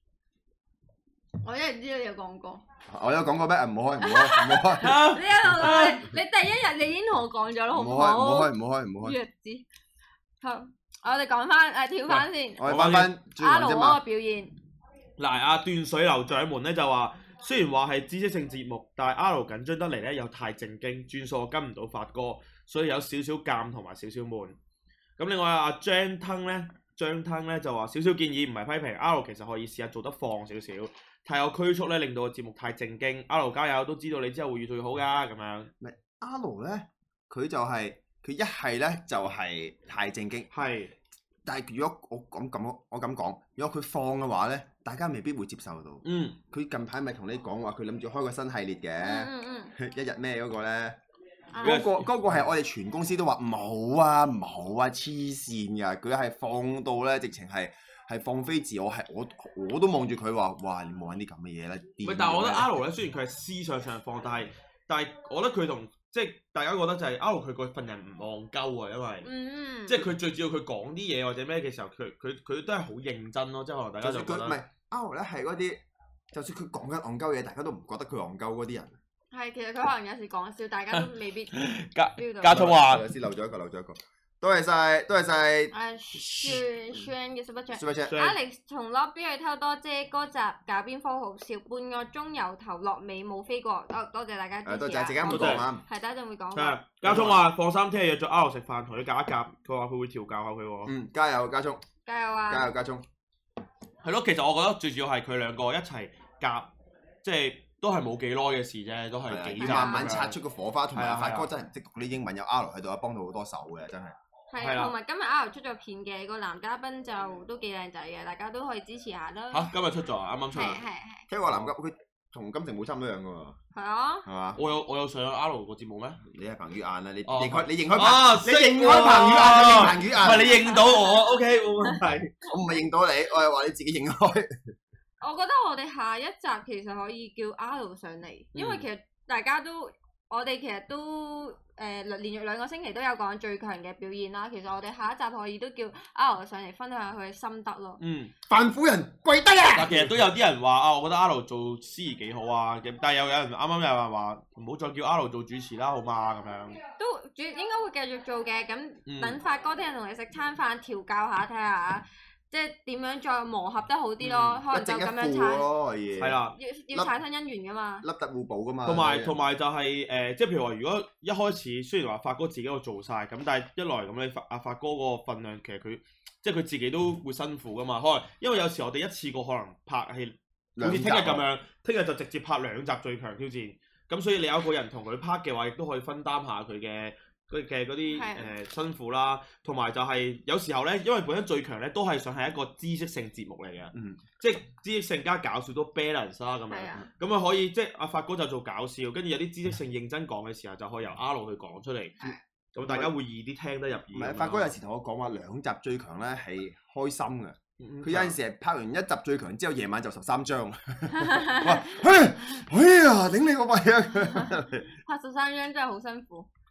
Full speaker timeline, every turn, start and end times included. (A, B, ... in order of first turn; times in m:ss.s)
0:01.4-0:02.6 A
0:02.9-0:05.0 B
0:04.0-0:09.6 A
0:04.8-0:06.0 C
0:07.7-0:09.2 B
0:10.4-0:12.6 A
0:12.1-0:13.1 C
0:12.6-0:14.0 B
0:13.4-0:14.6 A
0:15.2-0:24.6 C
0:25.2-0:35.7 C
0:35.8-0:40.5 B
0:40.5-0:40.9 C
0:41.4-0:51.0 B
0:46.0-0:46.4 C
0:49.0-0:49.7 A
0:51.5-0:51.9 A
0:51.6-0:52.3 C
0:51.6-1:02.7 B
1:02.0-1:09.3 C
1:09.2-1:10.1 A
1:09.9-1:14.6 C
1:14.0-1:15.8 B
1:16.3-1:19.0 B
1:19.3-1:21.5 A
1:20.9-1:23.0 C
1:22.2-1:22.6 A
1:22.5-1:26.6 B
1:25.7-1:36.8 A
1:27.7-1:28.2 B
1:28.1-1:28.4 C
1:34.6-1:35.8 B
1:35.3-1:35.6 C
1:36.5-1:40.9 C
1:37.0-1:37.4 B
1:40.8-1:41.8 B
1:42.0-1:42.7 A
1:42.5-1:43.0 B
1:44.0-1:46.7 C
1:47.2-1:50.4 C
1:49.3-1:54.1 B
1:49.6-1:50.2 A
1:50.9-1:51.5 C
1:54.5-1:59.7 A
1:54.6-1:54.9 C
1:59.5-2:00.8 C
2:00.5-2:01.3 A
2:01.3-2:03.6 B
2:01.4-2:01.7 C
2:03.7-2:04.3 A
2:04.2-2:04.6 B
2:04.6-2:06.2 C
2:06.2-2:10.6 B
2:07.3-2:12.4 C
2:10.4-2:12.0 A
2:12.5-2:14.5 B
2:15.2-2:28.0 A
2:18.5-2:18.8 C
2:28.0-2:28.3 C
2:28.5-2:30.2 B
2:29.7-2:36.8 C
2:36.9-2:45.6 A
2:39.1-2:39.4 C
2:44.2-2:44.6 C
2:44.7-2:46.4 B
2:46.2-2:46.6 C
2:46.5-2:48.0 A
2:48.0-2:49.3 B
2:48.8-3:22.2 C
3:00.8-3:01.4 B
3:08.1-3:08.5 A
3:13.9-3:14.2 B
3:16.7-3:17.0 A
3:22.2-3:23.1 B
3:22.7-3:24.7 C
3:24.1-3:34.9 B
3:27.8-3:28.4 C
3:31.1-3:31.9 A
3:34.3-3:36.5 A